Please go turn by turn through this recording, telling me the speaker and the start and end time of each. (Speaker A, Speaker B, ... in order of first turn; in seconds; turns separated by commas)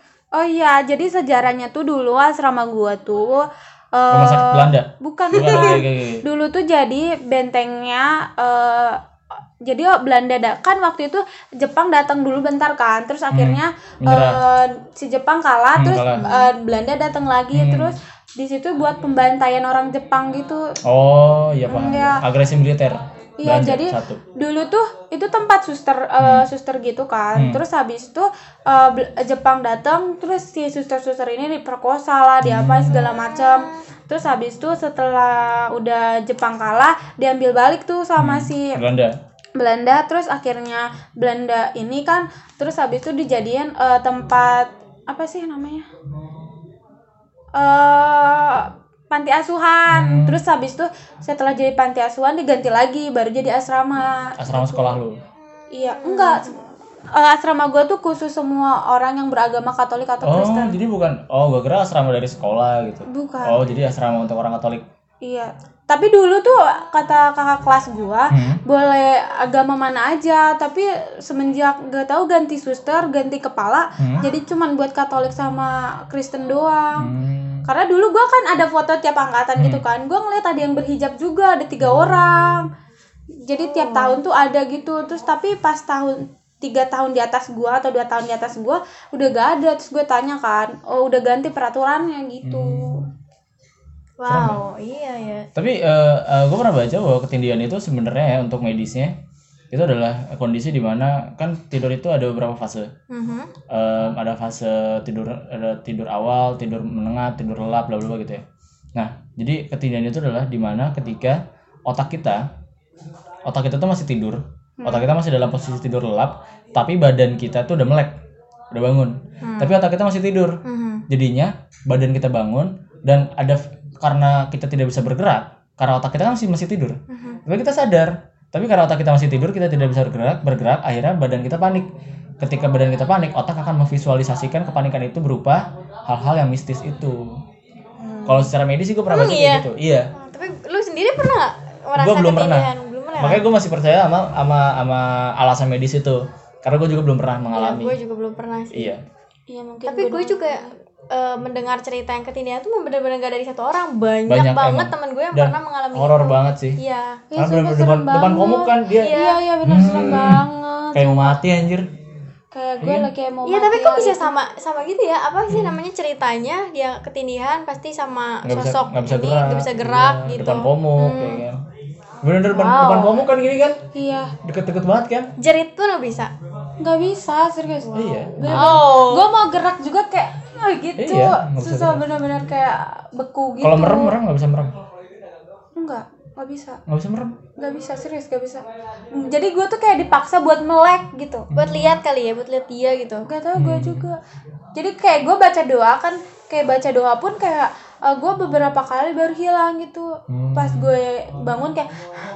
Speaker A: 0.3-9.0, Speaker B: 4.1-6.2, Speaker A: 9.6-20.8, Speaker B: 13.3-14.4, Speaker B: 15.8-16.2, Speaker C: 16.1-16.5, Speaker B: 17.5-17.9, Speaker B: 20.9-24.2, Speaker A: 21.7-22.2, Speaker A: 23.4-38.8, Speaker B: 26.2-26.4, Speaker B: 27.3-27.6, Speaker B: 32.4-33.1, Speaker C: 33.1-33.8, Speaker B: 38.2-39.1, Speaker A: 39.5-45.9, Speaker A: 47.5-55.0, Speaker B: 49.9-50.4, Speaker B: 54.4-55.2, Speaker C: 55.5-56.6, Speaker A: 55.7-56.6, Speaker A: 57.1-60.8, Speaker B: 60.2-64.8, Speaker A: 63.1-63.8, Speaker A: 65.2-77.1, Speaker B: 68.3-68.6, Speaker B: 74.0-74.2, Speaker B: 77.0-77.6, Speaker A: 77.7-82.7, Speaker B: 79.6-79.8, Speaker B: 81.8-82.1, Speaker A: 83.4-93.0, Speaker C: 83.6-84.2, Speaker B: 92.4-93.0, Speaker C: 94.2-95.5, Speaker B: 94.3-94.6, Speaker B: 95.5-99.1, Speaker B: 99.7-102.9, Speaker C: 103.1-103.5, Speaker B: 103.7-108.4, Speaker B: 109.0-112.5, Speaker B: 113.5-118.2, Speaker A: 114.8-115.0, Speaker B: 118.7-131.9, Speaker C: 119.4-119.7, Speaker C: 120.6-121.0, Speaker C: 127.1-127.4, Speaker B: 132.4-137.4, Speaker B: 138.2-140.1, Speaker C: 139.1-143.4, Speaker B: 141.9-147.9, Speaker C: 147.5-148.9, Speaker B: 148.7-149.0, Speaker A: 149.5-150.7, Speaker C: 149.8-157.2, Speaker B: 154.3-156.8, Speaker A: 157.3-161.4, Speaker B: 157.3-160.4, Speaker C: 159.0-159.4, Speaker B: 160.9-161.9, Speaker A: 162.5-164.3, Speaker B: 162.8-163.1, Speaker C: 163.4-171.4, Speaker B: 165.5-165.8, Speaker B: 168.4-171.6, Speaker B: 172.2-173.8, Speaker C: 172.5-173.2, Speaker A: 173.9-174.3, Speaker B: 174.4-175.3, Speaker C: 175.4-176.3, Speaker A: 176.8-184.1, Speaker B: 177.9-178.8, Speaker C: 178.4-179.3, Speaker B: 181.0-182.0, Speaker B: 183.6-184.7, Speaker A: 185.8-186.8, Speaker B: 186.9-187.3, Speaker A: 187.6-191.5, Speaker B: 191.5-192.0, Speaker C: 191.5-193.2, Speaker A: 193.2-194.2, Speaker B: 193.6-194.1, Speaker A: 194.7-201.9, Speaker B: 200.3-200.9